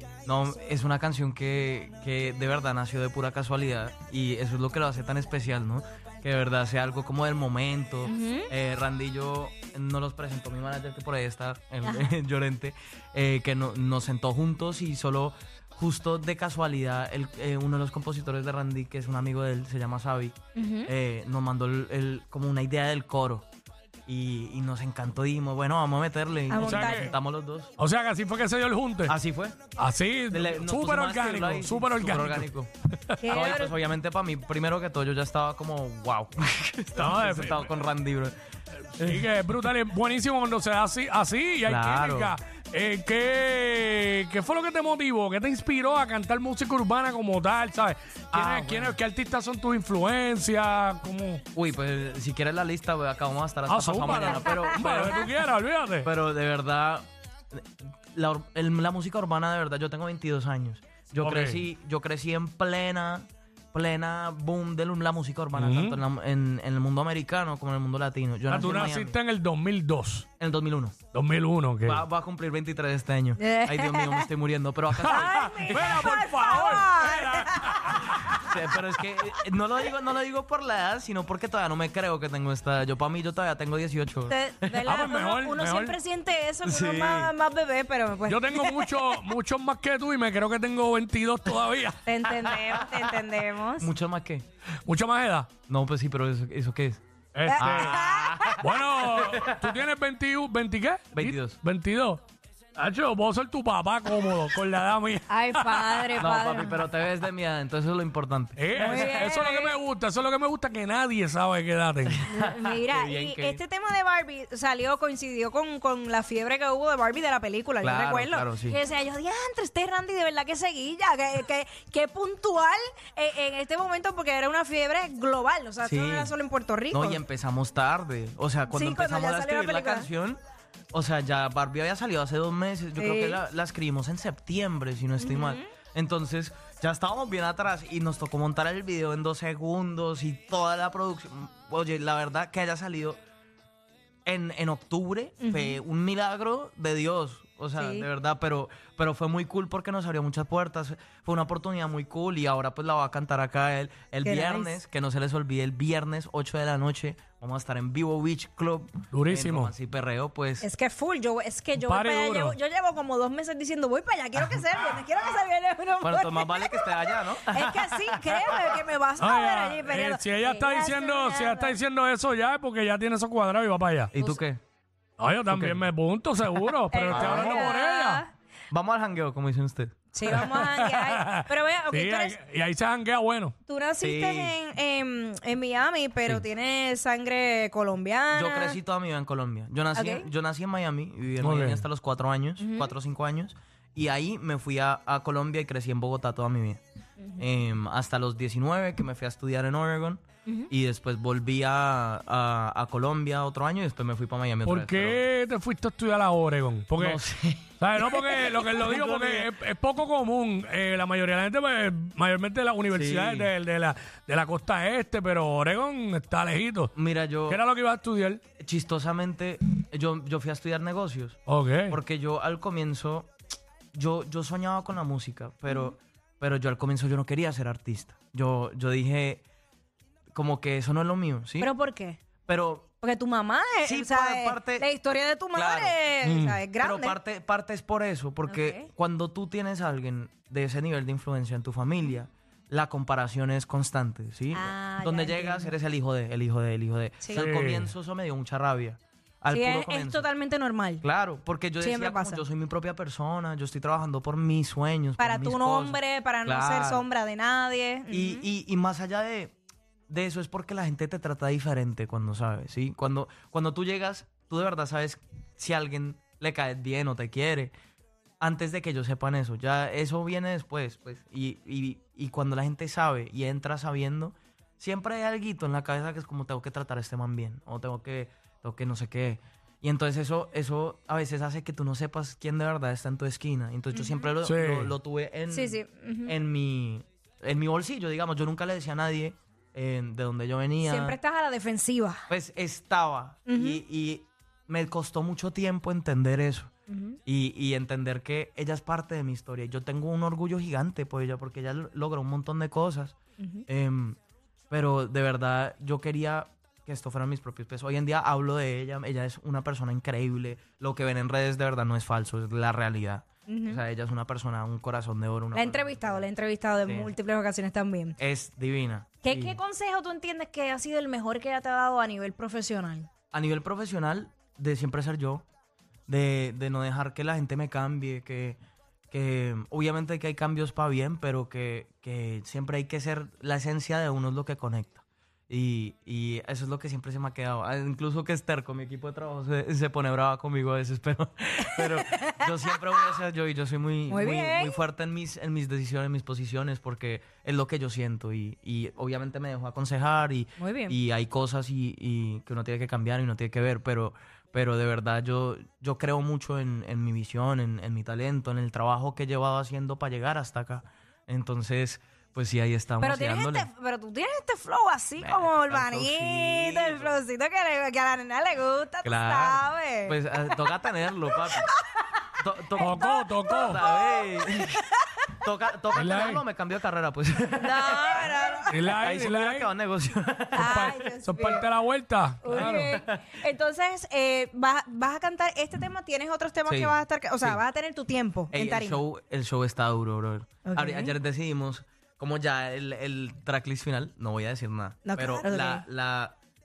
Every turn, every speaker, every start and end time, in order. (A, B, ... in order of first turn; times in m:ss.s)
0:00.2-0:23.4 A
0:08.0-0:08.5 B
0:20.5-0:20.9 B
0:24.1-0:27.7 A
0:26.5-0:27.1 B
0:26.6-0:27.1 C
0:27.8-0:29.1 C
0:29.0-0:29.6 A
0:29.8-0:32.5 C
0:30.3-0:32.7 A
0:33.1-0:33.4 C
0:33.2-0:33.7 B
0:33.3-0:38.3 A
0:37.0-0:37.7 C
0:39.0-0:51.4 C
0:39.0-0:39.3 A
0:41.6-0:42.3 A
0:48.3-0:49.0 A
0:51.5-0:55.3 A
0:53.6-0:56.1 C
0:56.0-0:57.0 A
0:58.1-1:09.1 A
1:01.2-1:01.6 C
1:05.6-1:06.0 C
1:08.5-1:10.2 C
1:10.4-1:11.0 A
1:11.1-1:12.0 C
1:11.8-1:16.1 A
1:13.4-1:14.3 B
1:15.0-1:18.4 C
1:15.1-1:18.2 B
1:18.3-1:24.9 A
1:24.3-1:29.0 B
1:24.8-1:26.0 C
1:26.6-1:27.3 A
1:28.3-1:32.0 C
1:32.0-1:33.9 B
1:33.8-1:34.4 A
1:34.8-1:35.5 C
1:35.7-1:37.0 A
1:37.3-1:38.0 C
1:37.5-1:38.6 B
1:37.6-1:39.6 A
1:38.6-1:42.2 C
1:41.1-1:41.6 A
1:42.8-1:46.2 C
1:45.3-1:46.8 B
1:46.2-1:49.2 A
1:48.6-1:52.2 C
1:48.7-1:49.7 B
1:52.0-1:53.6 A
1:52.3-2:07.2 B
1:57.8-1:58.8 A
2:05.8-2:06.3 A
2:06.9-2:10.4 A
2:08.7-2:10.1 B
2:10.9-2:23.2 A
2:13.0-2:13.4 B
2:15.2-2:15.7 B
2:24.2-2:40.6 A
2:25.4-2:25.8 B
2:27.8-2:28.1 B
2:34.2-2:34.7 B
2:39.1-2:39.7 C
2:40.6-2:51.8 B
2:41.8-2:42.6 C
2:46.0-2:48.7 A
2:49.2-2:54.1 C
2:54.1-2:54.6 A
2:55.2-2:58.2 C
2:55.5-2:55.8 A
2:56.9-2:58.3 B
2:57.1-2:57.7 A
2:58.7-3:00.5 A
3:00.1-3:02.4 B
3:00.3-3:03.5 C
3:03.7-3:08.8 B
3:04.0-3:04.5 A
3:08.3-3:16.8 A
3:09.9-3:10.3 B
3:11.4-3:11.8 C
3:12.6-3:12.9 B
3:17.4-3:25.2 A
3:24.6-3:27.2 C
3:27.0-3:29.5 A
3:27.8-3:36.9 C
3:32.9-3:33.5 A
3:36.9-3:37.6 A
3:37.5-3:38.4 C
3:38.6-3:41.4 A
3:41.5-3:42.0 C
3:41.9-3:43.3 A
3:43.9-3:49.4 A
3:45.7-3:46.0 B
3:50.3-3:51.7 A
3:51.6-3:52.2 B
3:52.4-3:52.9 A
3:53.0-3:57.2 B
3:53.8-3:54.8 A
3:55.5-3:56.0 A
3:56.2-3:56.6 C
3:56.8-4:10.2 A
3:58.4-3:58.9 B
4:04.5-4:05.7 B
4:07.3-4:07.9 C
4:09.5-4:11.0 B
4:11.0-4:17.0 A
4:11.8-4:12.4 B
4:15.2-4:18.4 B
4:18.1-4:19.5 A
4:20.1-4:27.7 A
4:28.4-4:51.2 A
4:43.9-4:44.3 B
4:44.4-4:44.9 C
4:45.5-4:46.3 B
4:50.8-4:52.2 B
4:52.3-4:56.7 A
4:53.5-4:53.8 B
4:56.9-4:57.2 B
4:57.2-5:04.2 A
5:03.4-5:03.6 B
5:04.7-5:16.2 A
5:13.5-5:13.8 B
5:15.5-5:18.2 B
5:16.8-5:17.1 A
5:18.2-5:19.6 A
5:19.2-5:23.1 B
5:23.3-5:25.4 A
5:26.1-5:28.6 A
5:29.1-6:03.7 A
5:41.7-5:42.5 B
5:44.1-5:44.8 B
5:50.6-5:51.0 B
6:03.0-6:10.6 B
6:05.2-6:07.2 A
6:09.0-6:11.7 A
6:11.6-6:12.0 B
6:12.4-6:14.8 A
6:12.8-6:15.4 B
6:12.8-6:13.8 C
6:15.4-6:18.3 A
6:15.9-6:16.4 C
6:17.6-6:18.9 B
6:18.7-6:19.7 C
6:19.0-6:21.1 A
6:20.5-6:21.6 B
6:20.6-6:23.0 C
6:22.4-6:29.0 B
6:22.5-6:23.3 A
6:26.6-6:27.6 A
6:28.5-6:36.4 A
6:30.6-6:31.1 B
6:35.0-6:35.8 B